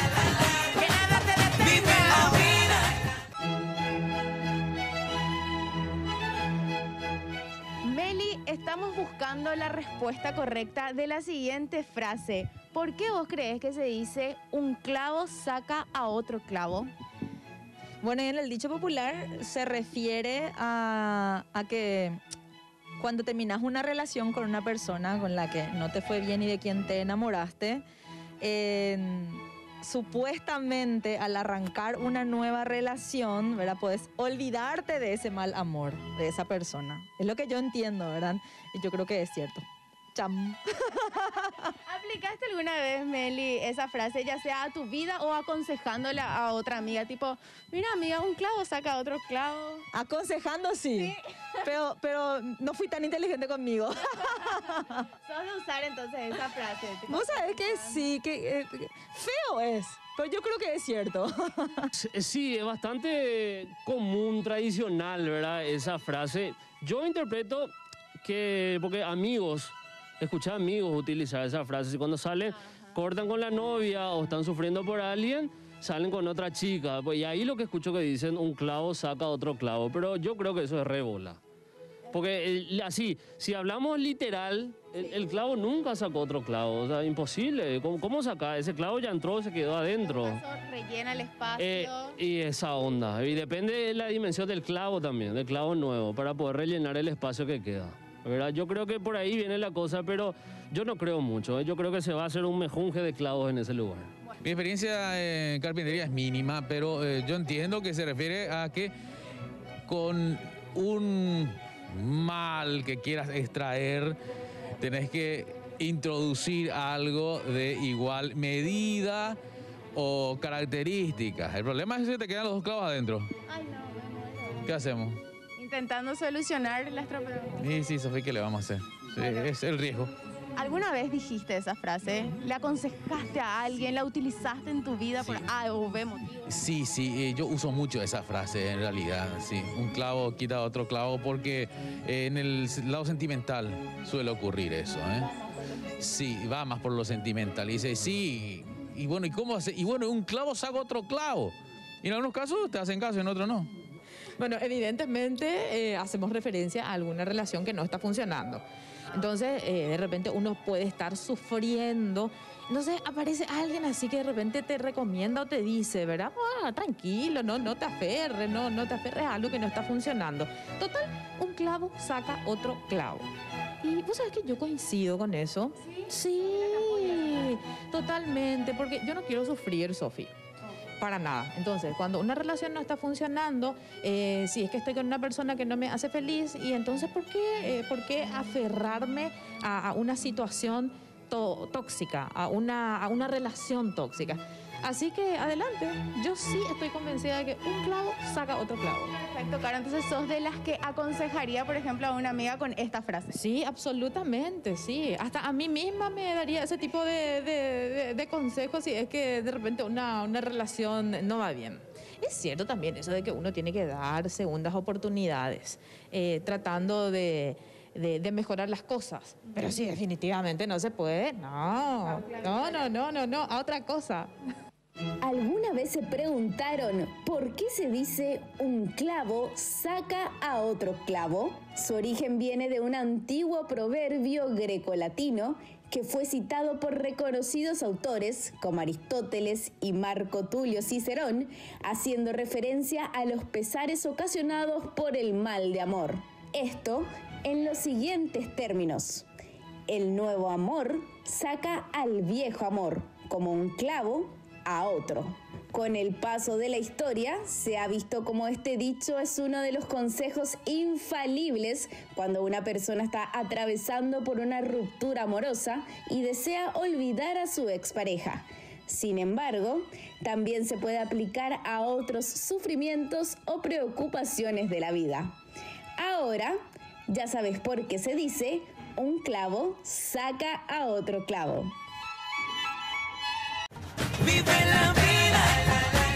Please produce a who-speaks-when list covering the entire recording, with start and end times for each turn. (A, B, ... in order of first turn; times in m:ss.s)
0:00.7-0:02.9 A
0:07.8-0:16.9 A
0:18.0-0:22.2 B
0:23.0-0:27.8 B
0:28.4-0:41.3 B
0:41.8-0:49.8 A
0:49.9-0:54.8 B
0:54.4-0:58.1 A
0:57.1-1:01.9 B
1:02.0-1:07.7 C
1:08.2-1:21.4 C
1:22.1-1:30.4 C
1:30.0-1:32.1 A
1:31.6-1:44.1 C
1:44.4-1:48.9 D
1:49.9-1:54.2 D
1:54.8-1:59.4 D
1:59.9-2:03.3 D
2:03.5-2:04.6 A
2:04.6-2:05.2 D
2:05.6-2:07.6 A
2:07.6-2:10.1 D
2:09.2-2:09.5 A
2:10.6-2:16.5 A
2:15.2-2:15.4 D
2:16.5-2:25.3 D
2:26.0-2:33.7 D
2:34.4-3:00.3 E
3:01.0-3:19.1 E
3:19.1-3:23.3 A
3:23.3-3:44.3 E
3:45.2-4:09.3 F
4:09.9-4:35.4 F
4:36.0-4:36.6 F
4:37.1-4:41.7 F
4:44.4-4:45.3 A